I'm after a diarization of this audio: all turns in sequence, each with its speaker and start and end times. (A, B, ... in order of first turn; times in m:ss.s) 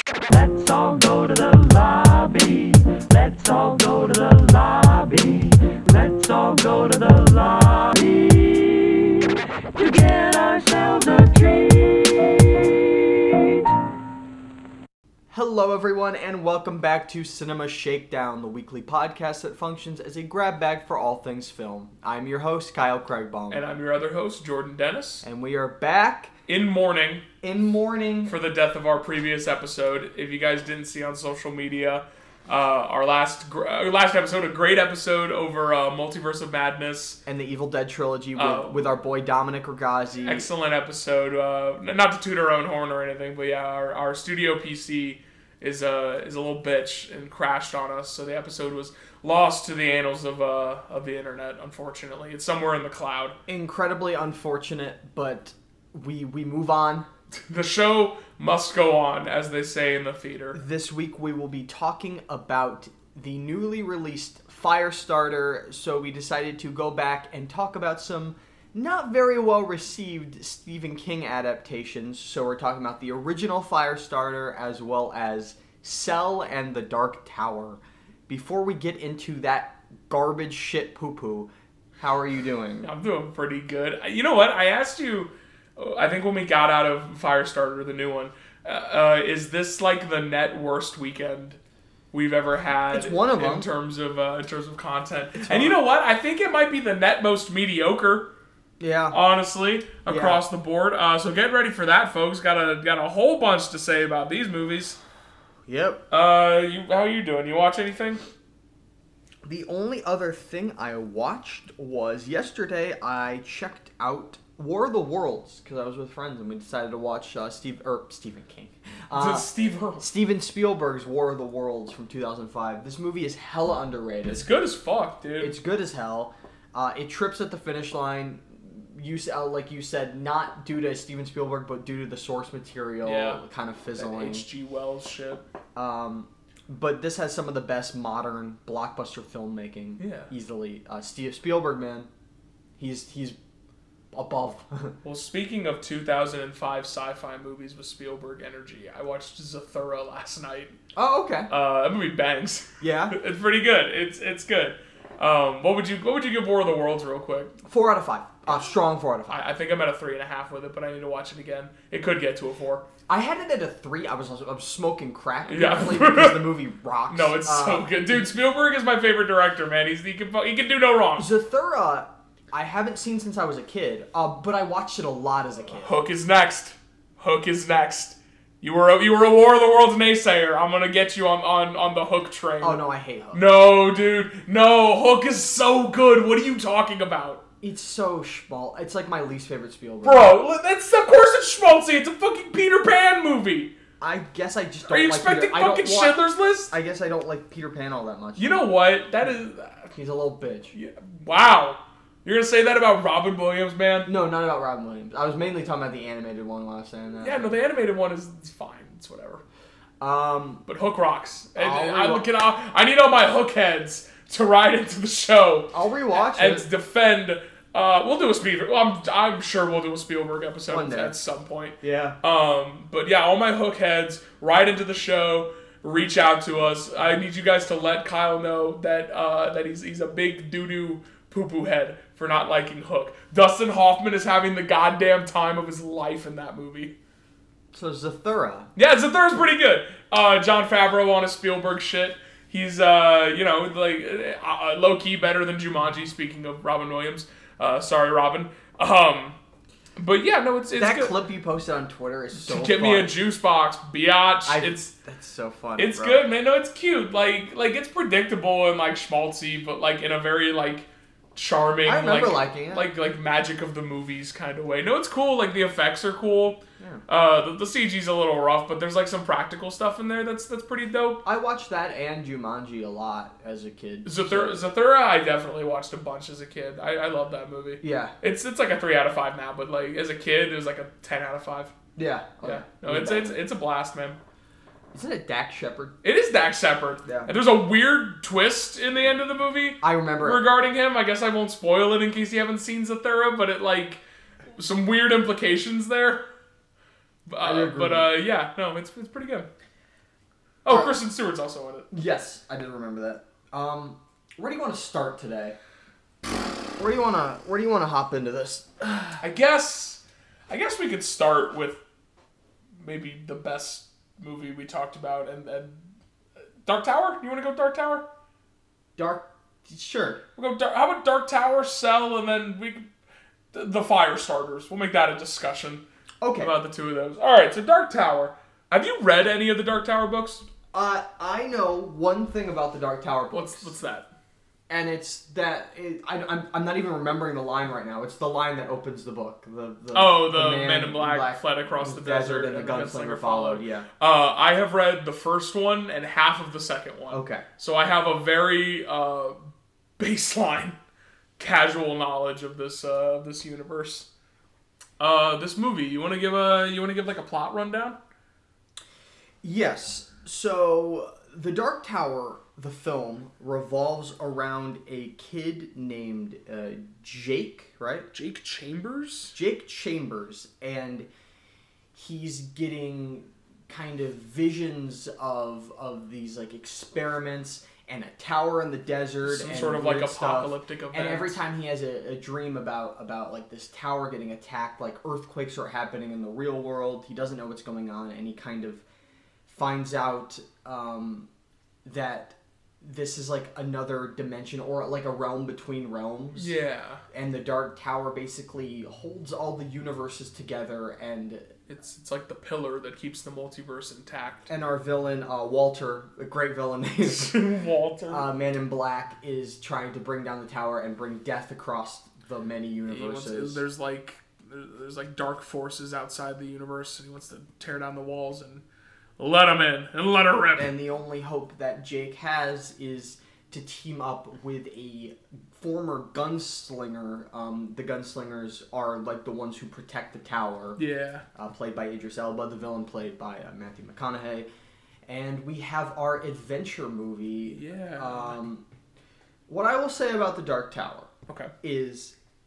0:00.3-0:13.5 A
0:15.3-0:23.6 B
0:23.5-0:25.3 C
0:25.2-0:26.3 B
0:26.5-0:27.3 C
0:27.4-0:28.4 B
0:28.3-0:37.2 C
0:37.3-0:40.5 B
0:38.4-0:38.9 C
0:40.2-0:53.4 C
0:53.5-0:57.1 B
0:57.5-1:00.6 C
1:00.5-1:22.9 B
1:22.8-1:31.6 C
1:32.1-1:38.3 C
1:32.9-1:33.7 B
1:35.4-1:35.8 B
1:38.8-1:39.2 B
1:39.1-1:45.0 C
1:40.1-1:40.4 B
1:45.7-1:46.0 B
1:46.1-1:48.2 C
1:49.4-2:04.5 B
1:59.1-2:00.1 C
2:04.2-2:05.5 C
2:05.4-2:14.5 B
2:13.0-2:13.4 C
2:14.0-2:15.4 C
2:15.8-2:22.1 B
2:20.0-2:20.3 C
2:22.8-2:23.4 B
2:24.1-2:25.0 B
2:25.0-2:30.7 C
2:31.0-2:31.5 B
2:31.5-2:37.5 C
2:32.8-2:33.2 B
2:37.6-2:39.5 B
2:39.3-2:42.8 C
2:43.1-2:48.2 B
2:45.5-2:46.4 C
2:47.1-2:51.3 C
2:51.2-2:56.0 B
2:55.8-3:07.4 C
3:02.6-3:03.4 B
3:07.6-3:10.3 B
3:10.0-3:13.7 C
3:14.0-3:18.6 B
3:14.9-3:16.7 C
3:18.4-3:19.9 C
3:19.9-3:20.7 B
3:20.7-3:24.1 C
3:24.1-3:27.5 B
3:27.2-3:29.4 C
3:30.0-3:30.6 B
3:30.7-3:57.0 C
3:31.6-3:32.3 B
3:35.7-3:36.7 B
3:40.7-3:41.2 B
3:41.8-3:42.2 B
3:57.7-3:58.7 B
3:58.8-4:09.4 C
4:10.0-4:11.2 C
4:10.8-4:13.1 B
4:12.4-4:14.9 C
4:14.5-4:16.3 B
4:15.8-4:31.2 C
4:21.8-4:22.9 B
4:31.2-4:34.7 B
4:34.0-4:41.7 C
4:37.8-4:38.2 B
4:42.0-4:43.4 B
4:42.4-4:44.2 C
4:44.9-4:46.0 B
4:46.0-4:54.0 C
4:47.1-4:47.3 B
4:49.8-4:50.4 B
4:54.6-4:56.3 C
4:57.3-4:59.5 C
4:57.4-4:58.1 B
5:00.6-5:01.9 C
5:00.7-5:00.9 B
5:01.9-5:05.6 B
5:06.8-5:09.2 B
5:09.2-5:11.8 C
5:12.8-5:15.8 C
5:16.6-5:18.1 C
5:19.0-5:20.2 B
5:20.4-5:22.9 C
5:23.5-5:25.8 C
5:26.2-5:26.5 B
5:26.4-5:30.5 C
5:30.7-5:33.8 B
5:33.3-5:34.1 C
5:34.7-5:43.9 B
5:39.9-5:50.8 C
5:47.1-5:47.5 B
5:51.4-5:54.1 C
5:55.0-5:58.0 C
5:59.4-6:08.1 B
6:08.1-6:09.4 C
6:09.3-6:11.1 B
6:11.9-6:28.8 B
6:19.2-6:21.4 C
6:29.5-6:31.3 B
6:31.8-6:36.5 B
6:36.4-6:37.0 C
6:37.1-6:41.5 B
6:41.7-6:44.5 C
6:44.5-6:47.4 B
6:47.0-6:48.3 C
6:48.1-6:53.6 B
6:52.9-6:58.6 C
6:59.2-7:00.7 C
7:00.6-7:10.8 B
7:10.8-7:11.2 C
7:11.4-7:14.5 B
7:15.1-7:18.7 B
7:17.5-7:18.4 C
7:19.5-7:21.1 B
7:21.6-7:22.2 B